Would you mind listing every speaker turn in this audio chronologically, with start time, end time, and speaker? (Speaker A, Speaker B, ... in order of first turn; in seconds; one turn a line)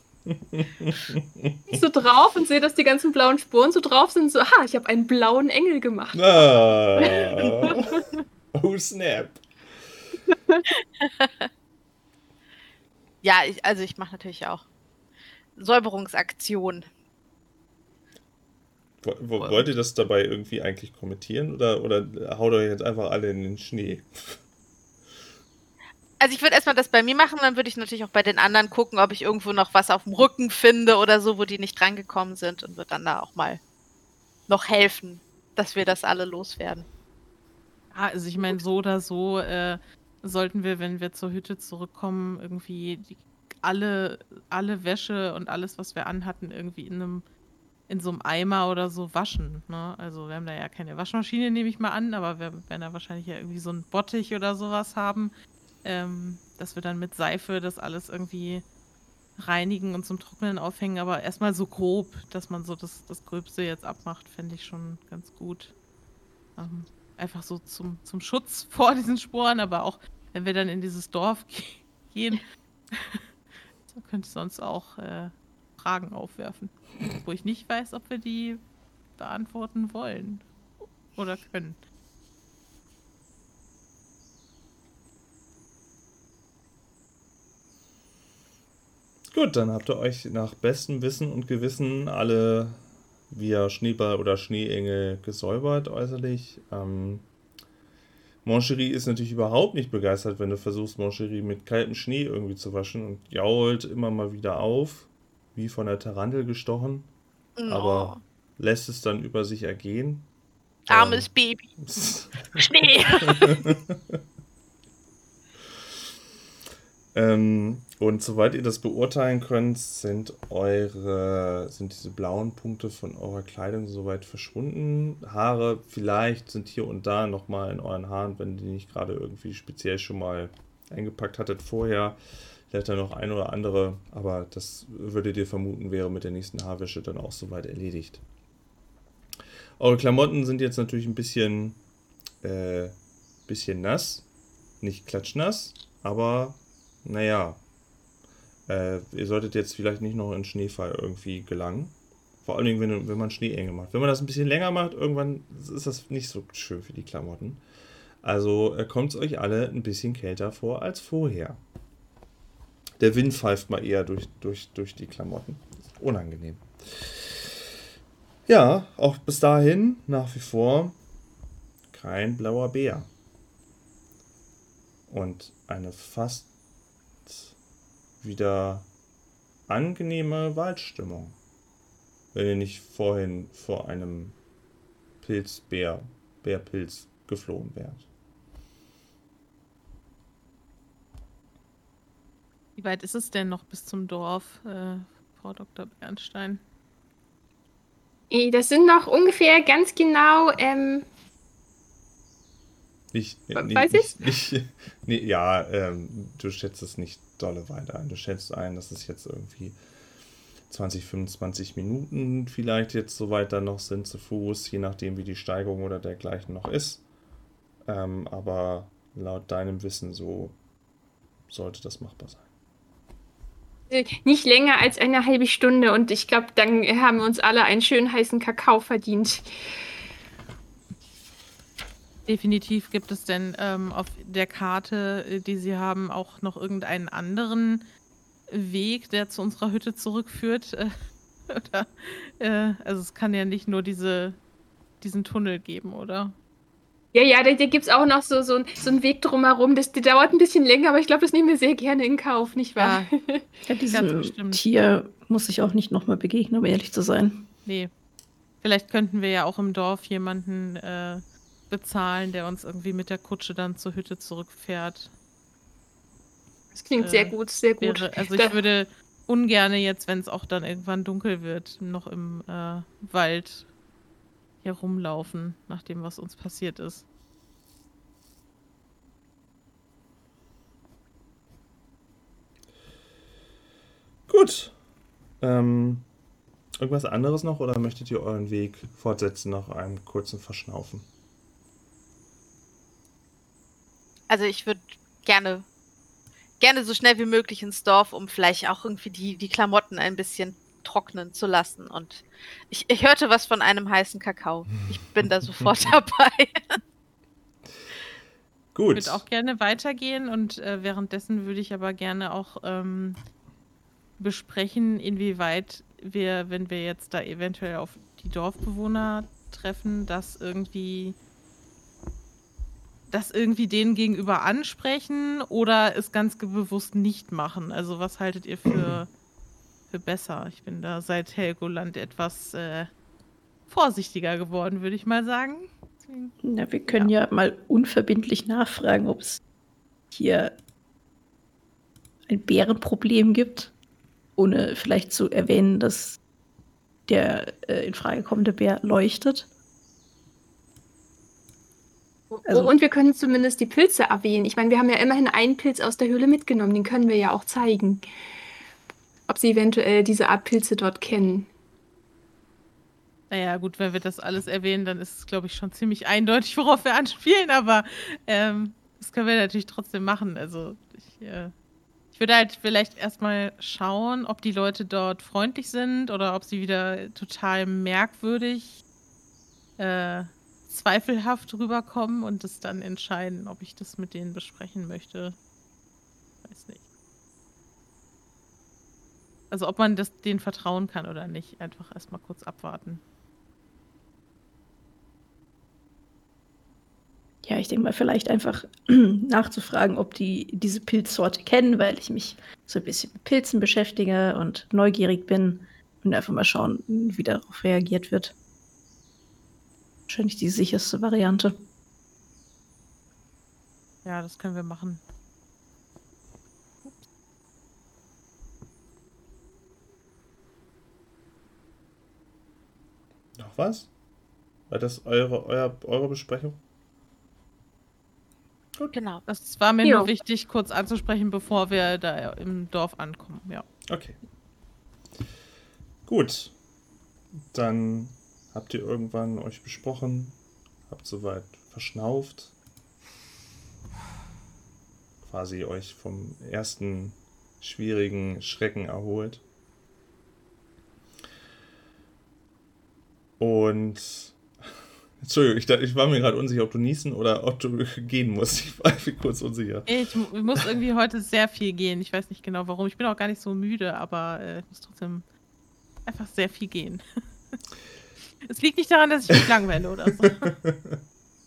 Speaker A: 0.3-1.8
Speaker B: 1.7-8.1
Speaker A: 6.1-8.0
Speaker A: 8.5-9.4
Speaker B: 10.3-10.7
Speaker C: 11.0-11.4
Speaker C: 13.2-14.6
Speaker C: 15.6-16.9
Speaker A: 19.0-24.4
Speaker C: 26.2-33.6
Speaker C: 34.5-36.9
Speaker D: 37.9-47.2
Speaker D: 47.9-58.6
Speaker D: 59.4-65.7
Speaker D: 66.6-73.2
Speaker D: 73.9-78.6
Speaker D: 79.2-80.5
Speaker D: 81.1-81.8
Speaker A: 89.3-97.3
Speaker A: 98.4-107.1
Speaker C: 107.6-108.2
Speaker A: 107.7-110.3
Speaker A: 110.9-114.2
Speaker C: 110.9-111.7
Speaker C: 112.5-113.7
Speaker A: 117.1-138.2
Speaker A: 139.8-141.8
Speaker A: 142.4-143.0
Speaker A: 143.5-144.3
Speaker A: 144.8-147.6
Speaker A: 148.7-157.6
Speaker A: 158.2-161.6
Speaker A: 163.0-167.7
Speaker A: 168.5-171.0
Speaker A: 171.9-173.1
Speaker A: 175.1-176.5
Speaker A: 177.2-177.5
Speaker A: 178.2-178.9
Speaker A: 179.7-181.4
Speaker A: 182.3-184.4
Speaker A: 185.2-188.1
Speaker D: 192.8-196.6
Speaker B: 198.3-201.1
Speaker A: 203.1-209.8
Speaker B: 203.5-204.1
Speaker A: 210.7-217.0
Speaker A: 217.9-220.6
Speaker A: 221.5-222.5
Speaker B: 223.9-229.5
Speaker D: 232.3-237.8
Speaker D: 238.5-240.9
Speaker D: 241.5-244.4
Speaker D: 245.0-246.3
Speaker B: 247.1-253.5
Speaker D: 252.8-253.1
Speaker E: 253.7-257.5
Speaker D: 253.9-254.6
Speaker D: 257.6-257.9
Speaker D: 258.6-265.1
Speaker B: 266.7-268.6
Speaker D: 267.0-273.7
Speaker D: 274.6-277.1
Speaker A: 284.3-284.8
Speaker A: 285.4-286.1
Speaker A: 286.8-291.1
Speaker C: 294.3-295.6
Speaker C: 296.6-306.8
Speaker A: 308.8-309.2
Speaker D: 308.9-313.2
Speaker D: 314.2-321.1
Speaker D: 323.1-329.1
Speaker A: 328.7-329.0
Speaker D: 329.9-332.9
Speaker D: 333.7-336.3
Speaker E: 336.4-339.4
Speaker D: 336.9-337.1
Speaker E: 340.1-340.5
Speaker E: 342.3-343.7
Speaker E: 344.4-346.2
Speaker E: 347.1-349.5
Speaker B: 352.3-358.0
Speaker E: 352.5-352.7
Speaker B: 359.3-361.5
Speaker D: 363.3-371.5
Speaker D: 372.1-378.8
Speaker D: 379.8-385.4
Speaker D: 386.4-386.8
Speaker D: 389.5-393.0
Speaker E: 397.4-408.4
Speaker E: 410.1-411.6
Speaker D: 414.0-415.0
Speaker A: 423.4-423.9
Speaker A: 424.7-426.6
Speaker C: 428.9-429.2
Speaker D: 429.3-433.6
Speaker B: 429.8-430.1
Speaker A: 433.9-434.2
Speaker A: 436.1-436.5
Speaker A: 437.5-440.4
Speaker A: 440.9-442.5
Speaker A: 445.2-449.4
Speaker A: 453.4-454.4
Speaker A: 455.2-459.9
Speaker D: 459.9-465.2
Speaker D: 466.1-467.0
Speaker D: 468.4-470.5
Speaker A: 470.4-471.0